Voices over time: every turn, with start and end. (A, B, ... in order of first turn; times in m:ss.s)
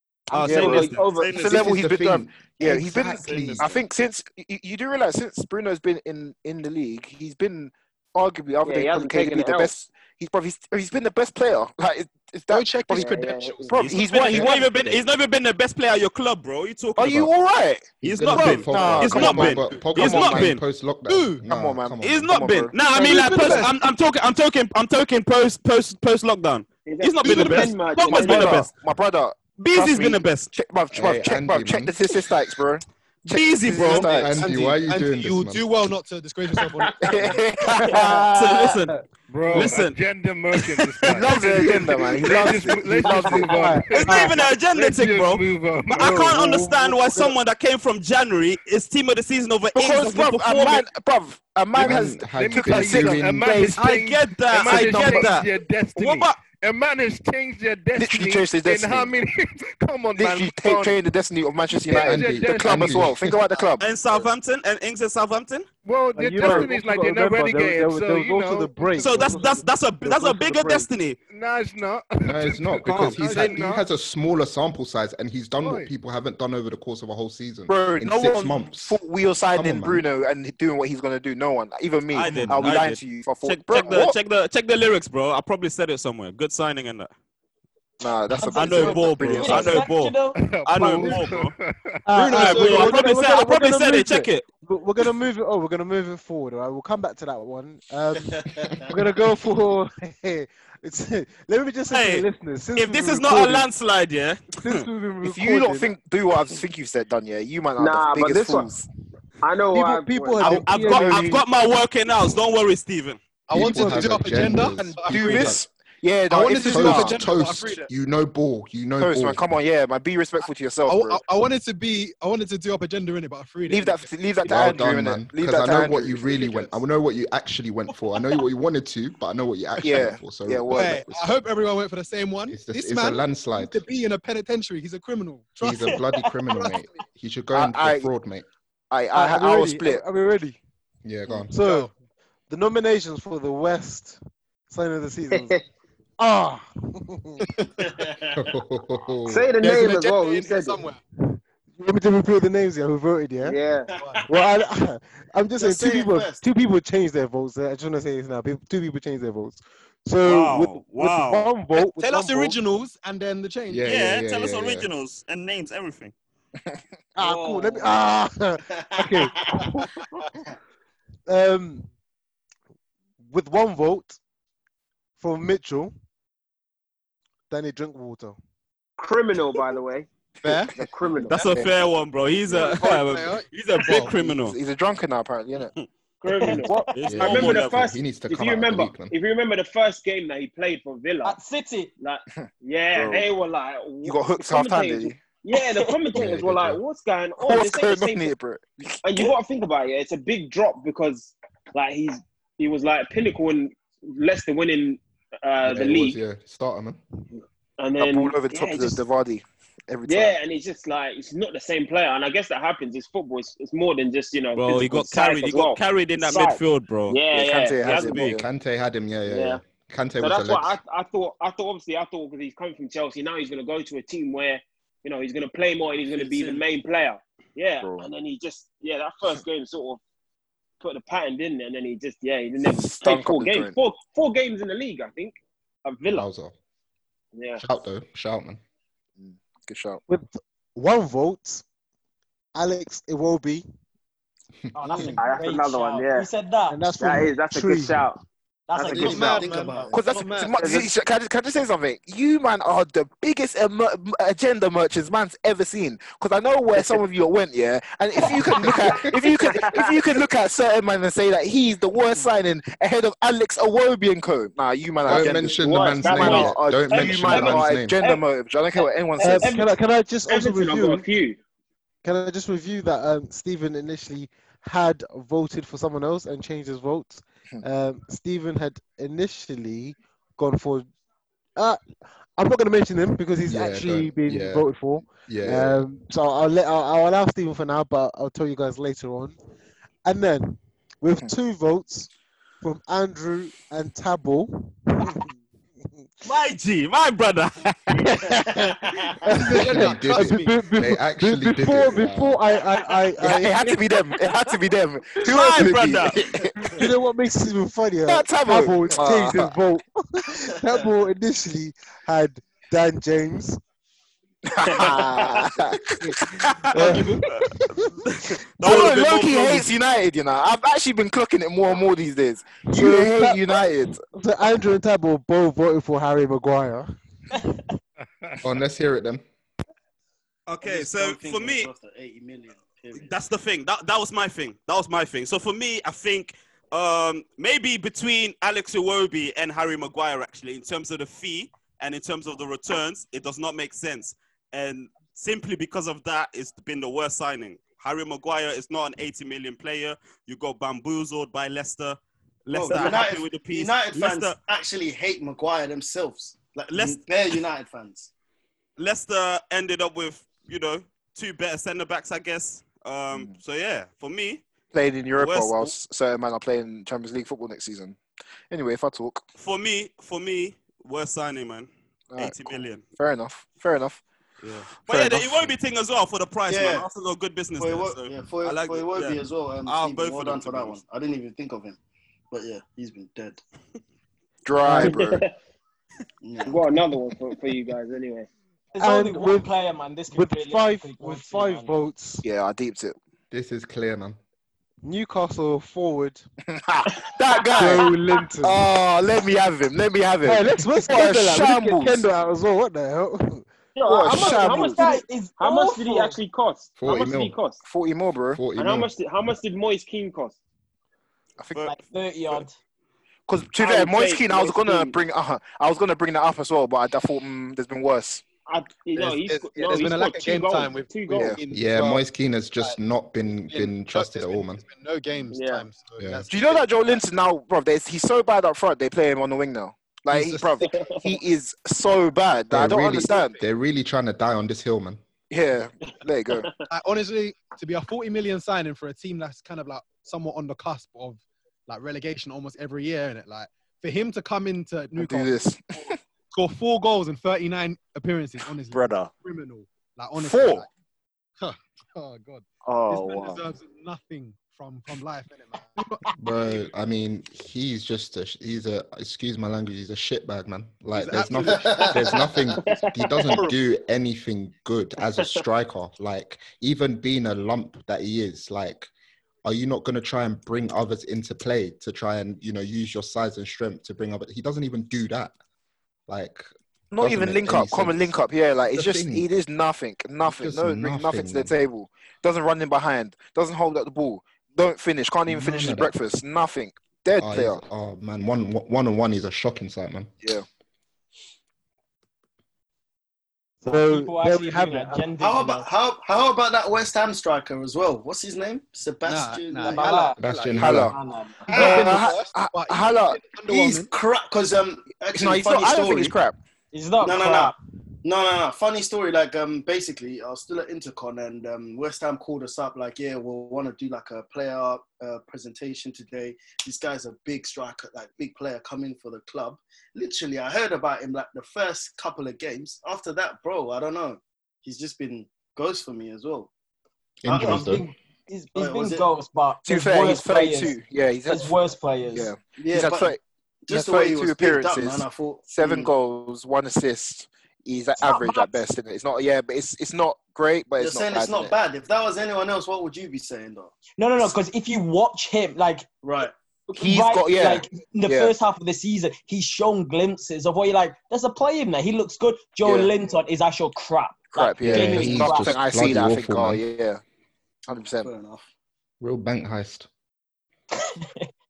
0:00.3-0:01.7 A
0:00.4-0:00.7 B
0:00.4-0:01.4 C
0:00.4-0:15.0 D
0:01.3-0:03.8 E
0:03.3-0:03.6 F
0:08.6-0:09.7 C
0:12.5-0:13.7 F
0:12.9-0:13.9 C
0:13.7-0:17.2 A
0:17.0-0:18.0 D
0:17.0-0:17.3 E
0:18.0-0:22.4 E
0:18.0-0:20.6 A
0:18.4-0:19.5 G
0:18.7-0:20.5 D
0:21.0-0:21.5 F
0:21.4-0:22.7 D
0:22.0-0:28.7 A
0:22.8-0:23.7 F
0:26.8-0:28.6 C
0:27.2-0:27.7 F
0:28.0-0:34.5 D
0:29.6-0:30.5 A
0:30.9-0:31.9 E
0:33.3-0:34.2 A
0:33.9-0:35.7 E
0:34.3-0:37.4 F
0:36.6-0:37.1 C
0:37.0-0:38.7 D
0:37.8-0:38.2 C
0:37.9-0:38.2 G
0:38.3-0:38.9 A
0:39.3-0:39.8 G
0:39.3-0:46.4 H
0:39.5-0:39.9 A
0:40.5-0:41.2 A
0:41.1-0:43.5 D
0:41.6-0:41.8 G
0:42.6-0:44.5 G
0:43.0-0:43.5 C
0:43.9-0:50.8 A
0:45.9-0:47.3 G
0:49.7-0:53.5 D
0:51.7-0:53.8 E
0:51.8-1:01.0 H
0:53.7-0:56.4 A
0:54.6-0:55.3 D
0:57.9-0:59.2 D
1:00.2-1:03.9 D
1:01.7-1:03.2 H
1:01.8-1:03.4 E
1:03.8-1:05.7 A
1:05.8-1:09.3 H
1:06.1-1:10.9 G
1:09.0-1:11.2 A
1:11.3-1:13.8 H
1:12.2-1:19.0 E
1:15.6-1:15.9 H
1:17.7-1:24.2 D
1:19.5-1:20.0 E
1:22.1-1:27.1 A
1:22.3-1:22.8 E
1:28.0-1:29.9 D
1:28.4-1:30.4 B
1:28.5-1:31.5 A
1:30.3-1:32.0 H
1:31.0-1:31.3 G
1:32.0-1:43.7 G
1:32.1-1:33.1 F
1:32.3-1:34.4 A
1:38.3-1:38.9 I
1:41.9-1:44.8 A
1:44.6-1:45.9 G
1:45.2-1:48.8 D
1:47.8-1:48.7 C
1:49.4-1:50.8 C
1:49.7-1:51.4 G
1:50.4-1:50.8 F
1:50.7-1:53.2 A
1:50.8-1:51.4 D
1:53.5-1:55.6 F
1:53.5-1:55.6 E
1:55.0-1:57.3 D
1:56.3-1:57.9 F
1:56.6-1:59.4 E
1:59.0-2:01.2 D
2:00.9-2:04.1 F
2:03.7-2:06.7 D
2:04.4-2:11.3 E
2:09.8-2:11.0 D
2:10.7-2:17.0 F
2:12.5-2:13.8 E
2:15.6-2:18.5 E
2:17.5-2:18.1 D
2:18.9-2:20.0 D
2:19.1-2:20.6 G
2:21.0-2:21.5 E
2:21.5-2:21.9 F
2:21.5-2:21.9 G
2:22.5-2:25.5 G
2:25.4-2:25.6 C
2:26.2-2:27.5 G
2:27.8-2:28.4 I
2:28.3-2:29.4 E
2:29.3-2:30.9 C
2:29.6-2:31.0 F
2:31.2-2:33.6 G
2:33.4-2:33.9 C
2:34.0-2:34.2 F
2:34.3-2:42.6 G
2:35.6-2:36.4 I
2:40.2-2:41.5 A
2:42.0-2:43.9 F
2:43.7-2:44.9 E
2:43.8-2:46.1 A
2:47.2-2:49.9 G
2:47.2-2:48.0 C
2:49.1-2:49.5 I
2:51.3-2:51.9 G
2:53.2-2:54.2 G
2:55.2-2:55.9 G
2:57.5-2:58.4 G
2:59.0-3:00.1 C
3:00.4-3:01.8 D
3:00.4-3:00.7 F
3:00.8-3:01.3 C
3:01.3-3:01.6 F
3:01.3-3:04.6 A
3:02.5-3:04.2 F
3:04.2-3:05.7 D
3:06.2-3:11.4 C
3:06.3-3:06.9 B
3:07.0-3:07.9 A
3:07.1-3:09.1 E
3:11.2-3:11.9 B
3:12.0-3:18.3 C
3:12.3-3:13.3 D
3:14.0-3:15.2 D
3:15.5-3:15.9 B
3:16.1-3:16.8 E
3:17.4-3:19.3 D
3:19.0-3:26.2 C
3:25.6-3:27.0 E
3:27.8-3:29.0 C
3:28.0-3:30.4 D
3:30.0-3:38.2 C
3:34.5-3:38.4 A
3:37.3-3:38.5 D
3:38.3-3:40.8 E
3:39.2-3:39.6 C
3:40.2-3:50.0 C
3:46.1-3:46.6 I
3:47.8-3:48.1 D
3:50.8-3:56.2 C
3:52.6-3:53.8 D
3:56.1-3:56.5 E
3:57.3-3:57.6 C
3:57.6-3:58.6 E
3:59.2-4:00.0 D
4:00.1-4:01.6 G
4:02.5-4:03.6 G
4:04.7-4:06.8 B
4:04.9-4:06.3 C
4:06.7-4:08.1 G
4:07.0-4:08.2 C
4:08.7-4:09.9 B
4:08.7-4:09.4 C
4:08.9-4:09.5 F
4:08.9-4:10.0 I
4:09.9-4:29.6 D
4:10.0-4:10.6 F
4:10.6-4:10.8 C
4:18.6-4:19.0 E
4:19.2-4:19.9 C
4:25.0-4:28.0 E
4:25.1-4:28.2 C
4:28.8-4:29.7 C
4:29.2-4:31.0 G
4:30.3-4:31.4 C
4:32.0-4:40.9 G
4:41.6-4:41.8 G
4:42.4-4:49.4 G
4:43.5-4:45.8 E
4:50.0-4:52.1 G
4:52.6-4:55.3 G
4:56.2-4:58.4 A
4:58.2-4:59.1 I
4:59.2-5:03.8 G
4:59.3-5:00.5 F
4:59.6-5:02.4 E
5:03.2-5:06.6 D
5:05.2-5:06.2 A
5:06.6-5:13.6 G
5:08.1-5:09.6 D
5:14.4-5:16.4 D
5:14.6-5:15.5 C
5:16.0-5:18.1 G
5:16.5-5:19.7 A
5:18.6-5:24.0 D
5:22.6-5:27.6 G
5:28.4-5:29.2 E
5:30.5-5:31.7 A
5:30.6-5:33.1 I
5:32.9-5:54.4 A
5:52.5-5:58.1 I
5:56.7-5:57.0 A
5:58.8-6:04.4 A
6:04.7-6:08.0 D
6:05.2-6:05.7 A
6:08.5-6:09.2 D
6:09.4-6:12.8 A
6:12.1-6:14.0 D
6:14.4-6:20.8 A
6:14.8-6:15.5 D
6:16.5-6:16.9 I
6:17.6-6:21.8 I
6:22.3-6:23.4 I
6:24.4-6:25.2 D
6:24.6-6:25.0 G
6:24.8-6:25.3 C
6:26.2-6:26.8 I
6:26.4-6:28.3 C
6:28.7-6:31.7 B
6:28.8-6:29.4 G
6:30.1-6:32.2 G
6:32.2-6:33.0 D
6:33.3-6:34.2 E
6:34.8-6:36.2 G
6:36.4-6:42.0 D
6:37.5-6:38.6 G
6:40.2-6:43.4 G
6:43.8-6:47.6 C
6:43.8-6:44.8 D
6:44.0-6:46.2 B
6:46.8-6:47.4 E
6:47.6-6:48.5 D
6:48.3-6:48.9 E
6:48.5-6:50.4 C
6:51.4-6:51.8 D
6:51.6-6:52.5 B
6:53.3-6:58.2 D
6:53.6-6:55.0 C
6:58.4-7:01.4 C
6:58.9-7:02.0 F
7:01.1-7:01.4 D
7:01.5-7:04.6 E
7:03.4-7:06.6 F
7:05.3-7:05.7 C
7:06.0-7:06.2 E
7:06.3-7:13.4 D
7:10.1-7:11.1 F
7:10.6-7:10.9 C
7:12.5-7:15.0 E
7:12.9-7:13.4 F
7:15.3-7:16.5 D
7:16.7-7:25.6 F
7:24.9-7:26.0 D
7:26.3-7:30.7 F
7:28.7-7:29.1 D
7:30.1-7:30.7 D
7:31.4-7:36.7 F
7:32.6-7:33.4 D
7:36.2-7:48.9 E
7:40.9-7:42.2 F
7:41.5-7:42.5 I
7:42.6-7:43.2 C
7:49.4-7:55.3 E
7:56.1-7:59.2 E
7:56.9-8:07.6 D
8:00.2-8:01.5 E
8:05.3-8:05.9 E
8:07.2-8:10.1 E
8:13.6-8:15.1 G
8:13.7-8:15.7 B
8:15.2-8:19.8 I
8:19.0-8:23.9 F
8:19.6-8:21.9 B
8:20.2-8:20.9 E
8:20.6-8:21.0 D
8:21.5-8:23.2 D
8:23.4-8:26.1 I
8:25.1-8:26.4 D
8:26.7-8:27.6 B
8:27.0-8:46.5 I
8:47.2-8:47.9 E
8:47.2-8:47.8 I
8:47.3-8:50.7 B
8:48.5-8:49.1 I
8:49.6-8:51.6 D
8:51.3-8:52.3 B
8:52.1-9:01.5 D
8:52.5-8:53.1 I
8:53.6-8:55.9 I
8:58.0-8:58.6 B
9:00.8-9:03.7 I
9:04.0-9:05.9 B
9:06.0-9:06.3 I
9:06.7-9:15.6 B
9:06.8-9:08.4 D
9:12.6-9:12.9 D
9:14.3-9:17.0 D
9:14.7-9:16.6 E
9:17.7-9:18.4 I
9:17.7-9:18.1 D
9:19.0-9:19.9 E
9:20.7-9:21.3 B